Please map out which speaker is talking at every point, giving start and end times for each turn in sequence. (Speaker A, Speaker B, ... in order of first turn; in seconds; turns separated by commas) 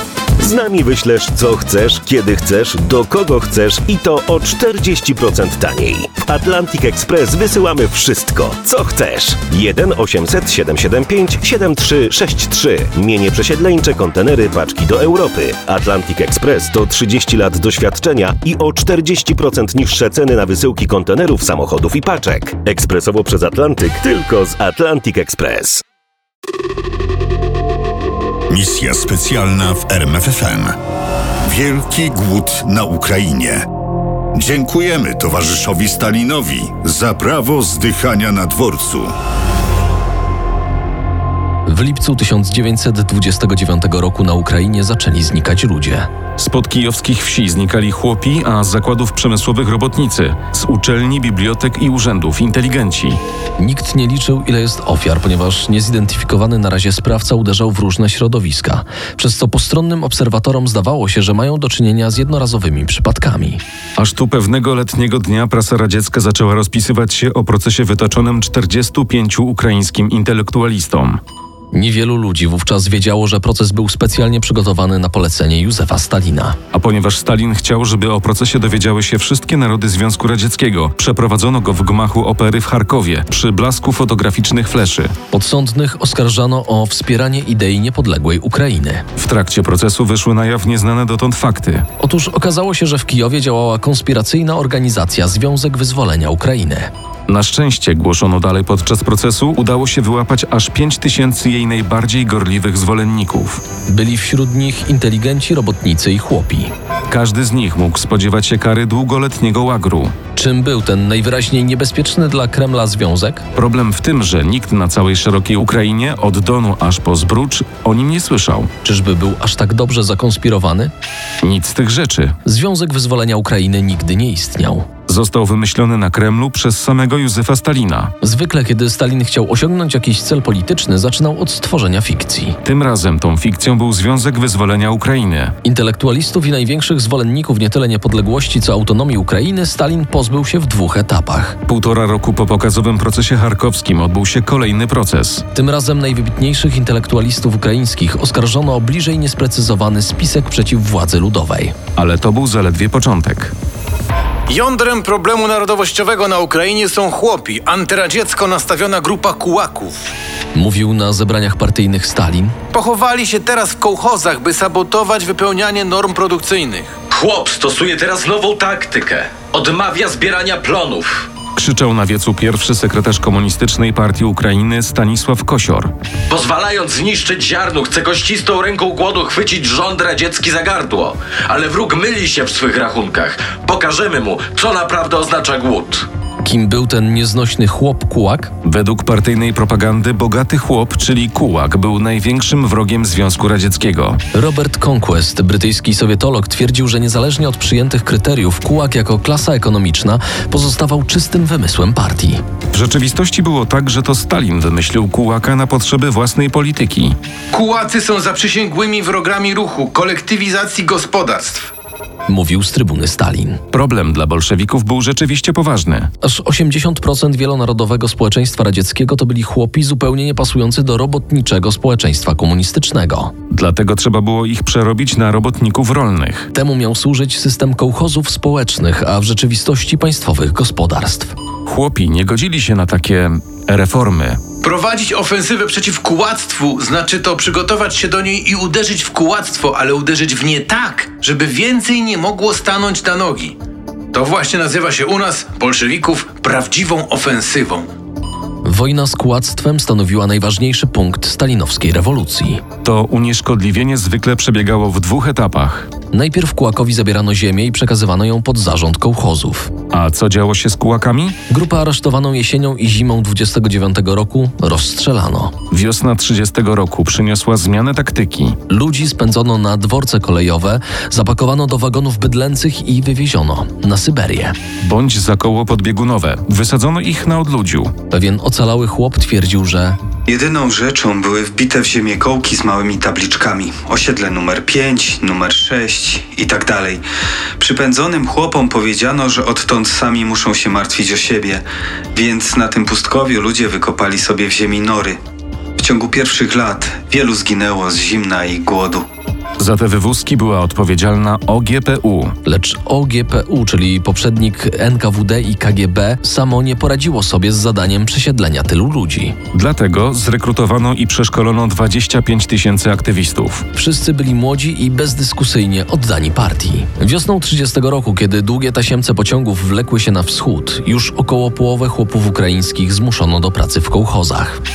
Speaker A: 0.4-25.8, Speaker B: 28.5-30.8, Speaker B: 31.4-33.7, Speaker B: 34.3-39.1, Speaker C: 41.7-46.1, Speaker D: 46.4-53.2, Speaker C: 53.6-63.6, Speaker D: 64.0-71.2, Speaker C: 71.7-76.6, Speaker D: 76.7-85.2, Speaker C: 85.3-89.0, Speaker D: 89.2-91.9, Speaker C: 92.0-96.9, Speaker D: 97.3-103.6, Speaker C: 103.9-106.7, Speaker D: 107.1-110.2, Speaker C: 110.4-113.5, Speaker D: 113.5-118.7, Speaker C: 118.8-120.9, Speaker D: 121.4-122.3, Speaker C: 122.5-124.9, Speaker D: 125.1-128.1, Speaker C: 128.2-132.6, Speaker D: 132.6-135.6, Speaker C: 135.6-141.6, Speaker D: 141.7-145.4, Speaker C: 145.5-151.8, Speaker D: 151.9-153.5, Speaker E: 154.5-160.1, Speaker C: 160.6-162.6, Speaker E: 162.7-166.9, Speaker F: 167.1-171.3, Speaker D: 171.6-175.9, Speaker F: 176.3-186.1, Speaker C: 186.4-188.5, Speaker D: 188.6-194.2, Speaker C: 194.3-202.4, Speaker D: 202.7-207.2, Speaker E: 207.5-211.7, Speaker C: 212.3-213.6, Speaker D: 213.7-216.1, Speaker C: 216.2-223.3, Speaker D: 223.5-226.5, Speaker C: 226.5-231.3, Speaker D: 231.7-234.4, Speaker E: 234.6-243.6, Speaker E: 244.1-247.9, Speaker C: 248.7-252.6, Speaker D: 252.8-255.9, Speaker C: 256.1-259.7, Speaker D: 259.9-261.4, Speaker C: 261.5-265.5, Speaker D: 265.7-268.6, Speaker C: 268.7-274.6, Speaker D: 274.8-277.9, Speaker C: 278.1-280.0, Speaker G: 280.3-287.0, Speaker G: 287.6-295.2, Speaker G: 295.8-299.1, Speaker D: 299.6-302.4, Speaker C: 302.5-309.4, Speaker D: 309.5-313.6, Speaker C: 313.8-324.6